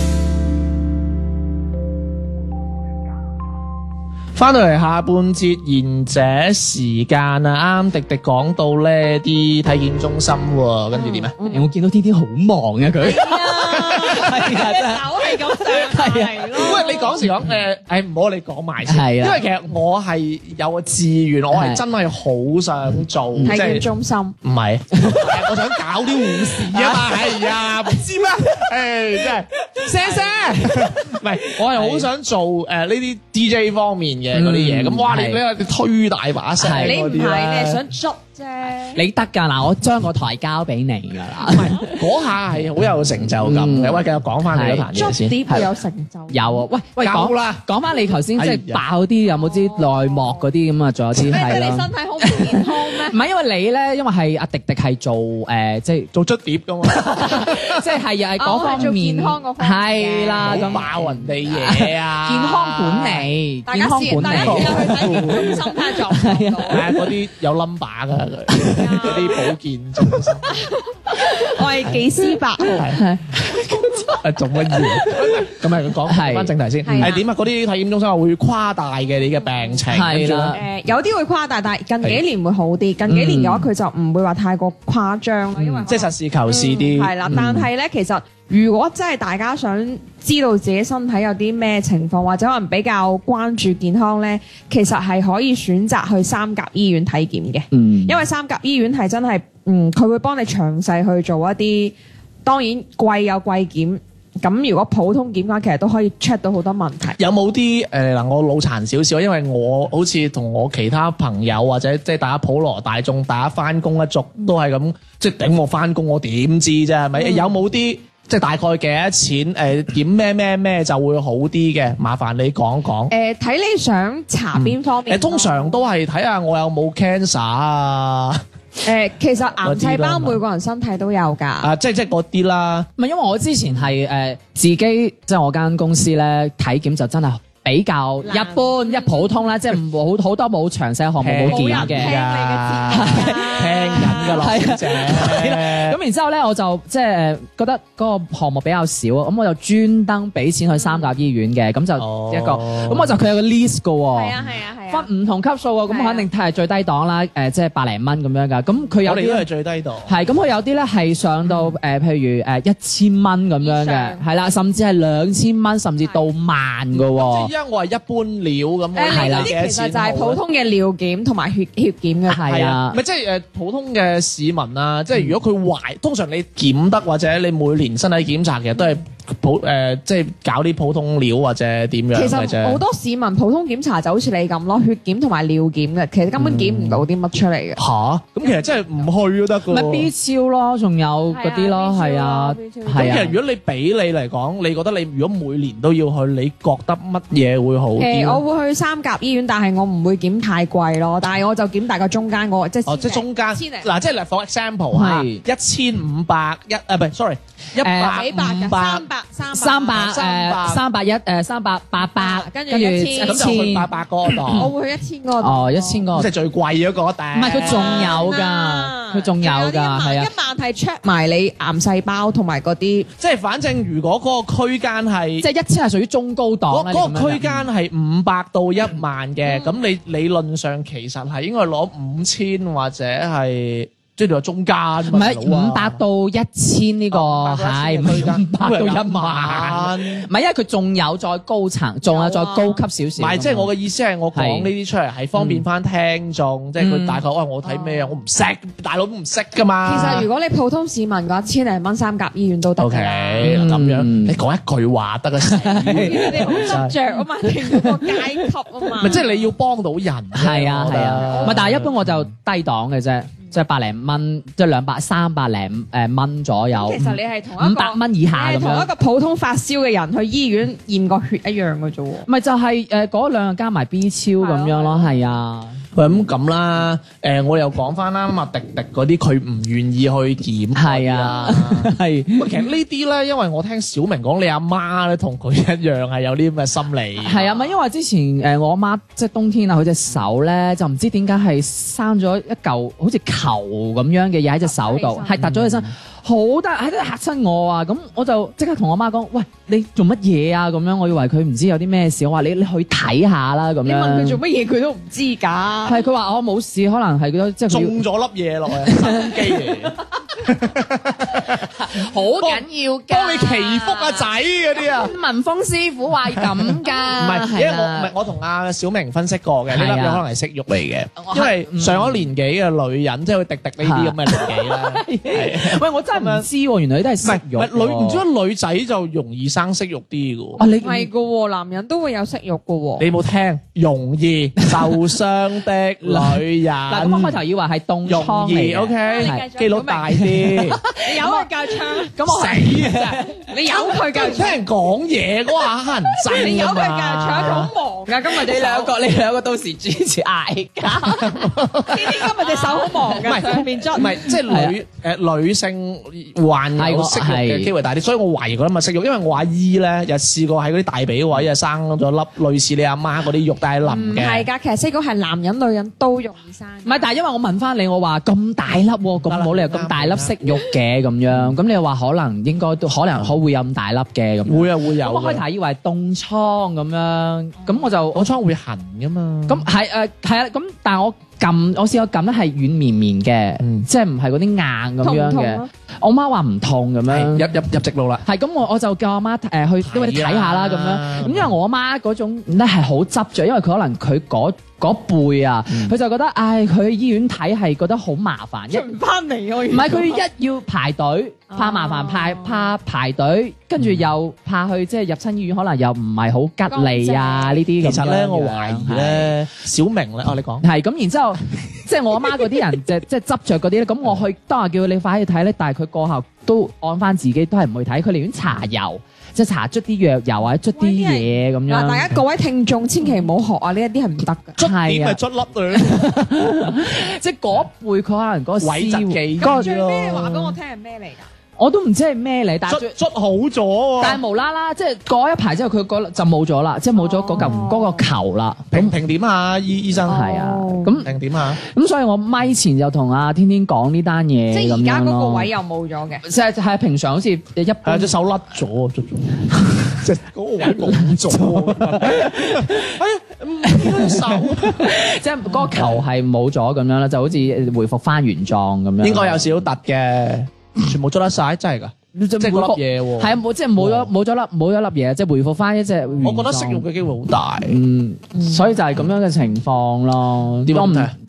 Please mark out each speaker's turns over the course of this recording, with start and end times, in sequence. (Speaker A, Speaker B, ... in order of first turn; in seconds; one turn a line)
Speaker A: 4.3-11.3
Speaker B: 10.9-11.6
Speaker C: 11.4-16.8
Speaker B: 13.0-17.3
Speaker A: 16.6-23.9
Speaker C: 18.9-19.4
Speaker C: 21.5-21.8
Speaker C: 23.4-23.7
Speaker B: 23.4-24.4
Speaker A: 24.4-37.8
Speaker C: 25.0-25.3
Speaker C: 26.3-27.9
Speaker C: 29.7-32.1
Speaker C: 34.3-35.4
Speaker C: 36.6-37.0
Speaker B: 36.8-39.0
Speaker C: 38.9-42.0
Speaker A: 41.5-45.4
Speaker C: 43.4-45.7
Speaker B: 44.9-46.7
Speaker C: 46.3-56.1
Speaker A: 47.0-47.7
Speaker A: 48.3-48.8
Speaker B: 49.2-50.5
Speaker B: 51.2-53.2
Speaker A: 56.1-57.8
Speaker C: 56.9-67.1
Speaker B: 58.4-60.9
Speaker A: 60.4-63.3
Speaker B: 63.7-66.9
Speaker A: 64.1-65.6
Speaker A: 66.7-70.5
Speaker C: 68.5-69.1
Speaker B: 68.7-69.4
Speaker B: 70.5-72.8
Speaker A: 72.6-73.0
Speaker C: 72.9-77.2
Speaker A: 74.2-80.6
Speaker B: 76.8-77.2
Speaker B: 79.4-79.8
Speaker C: 79.9-80.6
Speaker B: 80.5-107.2
Speaker C: 83.1-83.7
Speaker C: 85.6-85.9
Speaker A: 85.9-87.5
Speaker C: 87.3-87.7
Speaker C: 97.7-98.2
Speaker A: 107.2-123.1
Speaker B: 117.2-117.5
Speaker B: 123.1-125.8
Speaker A: 124.5-128.4
Speaker B: 128.8-131.7
Speaker A: 129.6-130.4
Speaker A: 131.6-132.9
Speaker C: 133.0-142.2
Speaker B: 138.2-139.5
Speaker A: 141.2-146.0
Speaker B: 141.5-144.6
Speaker C: 142.9-154.4
Speaker B: 150.8-151.1
Speaker A: 152.0-153.2
Speaker B: 154.1-155.1
Speaker C: 154.9-159.5
Speaker B: 155.9-156.3
Speaker A: 159.0-160.2
Speaker C: 160.1-167.5
Speaker A: 161.5-161.7
Speaker B: 163.6-164.2
Speaker A: 166.9-170.4
Speaker B: 168.9-172.6
Speaker C: 169.1-169.5
Speaker C: 172.3-173.0
Speaker A: 172.5-182.8
Speaker B: 182.1-187.8
Speaker A: 186.3-187.1
Speaker A: 187.8-190.1
Speaker B: 188.4-189.1
Speaker C: 189.7-193.4
Speaker B: 191.3-193.3
Speaker A: 192.9-198.4
Speaker B: 198.0-203.9
Speaker A: 202.8-209.1
Speaker C: 204.9-205.4
Speaker C: 207.8-208.3
Speaker B: 208.0-210.1
Speaker C: 209.5-213.9
Speaker A: 209.9-210.8
Speaker B: 212.0-213.8
Speaker A: 213.2-214.7
Speaker B: 214.5-216.1
Speaker C: 215.4-216.3
Speaker A: 216.1-218.3
Speaker C: 217.3-220.3
Speaker B: 217.5-223.1
Speaker A: 223.2-225.5
Speaker C: 225.4-227.7
Speaker A: 226.7-236.0
Speaker B: 229.4-229.7
Speaker C: 235.1-243.7
Speaker A: 237.1-240.3
Speaker B: 242.1-242.8
Speaker A: 243.2-250.3
Speaker C: 244.3-244.7
Speaker C: 245.4-245.6
Speaker C: 246.8-247.2
Speaker B: 247.6-248.2
Speaker B: 249.8-253.5
Speaker A: 252.8-257.0
Speaker C: 253.4-254.4
Speaker C: 255.5-258.2
Speaker B: 255.8-259.5
Speaker A: 259.0-262.3
Speaker C: 260.3-268.9
Speaker B: 261.2-261.7
Speaker B: 266.7-272.3
Speaker C: 272.2-275.8
Speaker B: 274.4-275.4
Speaker A: 275.9-287.5
Speaker C: 280.8-282.5
Speaker C: 287.2-304.4
Speaker B: 287.4-287.8
Speaker B: 294.6-295.4
Speaker A: 295.4-295.9
Speaker B: 303.8-306.0
Speaker C: 305.9-308.0
Speaker A: 307.7-315.1
Speaker C: 308.9-309.7
Speaker C: 311.4-314.0
Speaker C: 314.8-318.1
Speaker A: 317.2-326.5
Speaker C: 319.7-320.2
Speaker C: 321.2-322.3
Speaker C: 323.8-328.2
Speaker A: 327.2-330.6
Speaker C: 330.6-331.1
Speaker B: 330.8-333.1
Speaker A: 333.0-337.4
Speaker C: 336.0-339.5
Speaker A: 338.1-340.8
Speaker B: 339.0-340.2
Speaker C: 340.1-344.1
Speaker B: 341.0-342.8
Speaker A: 342.3-343.2
Speaker B: 343.4-344.6
Speaker A: 344.1-347.7
Speaker B: 346.3-348.9
Speaker C: 346.3-346.6
Speaker C: 347.3-347.7
Speaker C: 348.2-351.5
Speaker A: 351.1-352.2
Speaker B: 351.9-354.2
Speaker C: 352.4-353.6
Speaker A: 353.1-364.5
Speaker C: 354.2-354.8
Speaker C: 356.8-357.7
Speaker B: 363.9-367.1
Speaker C: 366.9-378.3
Speaker A: 369.2-370.4
Speaker A: 371.3-371.6
Speaker A: 374.5-375.4
Speaker A: 378.1-379.7
Speaker C: 379.5-387.5
Speaker A: 383.6-383.9
Speaker B: 385.0-385.7
Speaker A: 387.1-388.2
Speaker C: 388.2-398.9
Speaker A: 389.8-391.5
Speaker A: 395.7-395.9
Speaker B: 398.7-400.2
Speaker C: 399.7-409.3
Speaker B: 401.5-402.7
Speaker A: 403.8-404.1
Speaker B: 406.7-407.6
Speaker A: 407.8-410.6
Speaker C: 410.6-422.1
Speaker B: 420.8-424.6
Speaker C: 424.6-425.2
Speaker A: 424.6-426.1
Speaker C: 425.7-429.7
Speaker A: 428.6-430.6
Speaker B: 429.4-431.3
Speaker C: 431.6-432.9
Speaker A: 432.7-434.2
Speaker C: 434.0-438.9
Speaker B: 437.0-438.1
Speaker A: 437.4-437.6
Speaker A: 438.7-440.2
Speaker B: 440.1-441.0
Speaker C: 440.1-441.1
Speaker A: 441.0-441.6
Speaker C: 441.6-445.5
Speaker B: 444.5-446.2
Speaker C: 446.2-448.1
Speaker A: 447.8-454.9
Speaker C: 450.9-453.0
Speaker C: 453.6-459.5
Speaker A: 455.6-456.0
Speaker A: 459.0-464.1
Speaker C: 462.1-466.9
Speaker A: 466.2-467.8
Speaker C: 467.6-471.1
Speaker B: 468.4-468.6
Speaker A: 470.7-471.1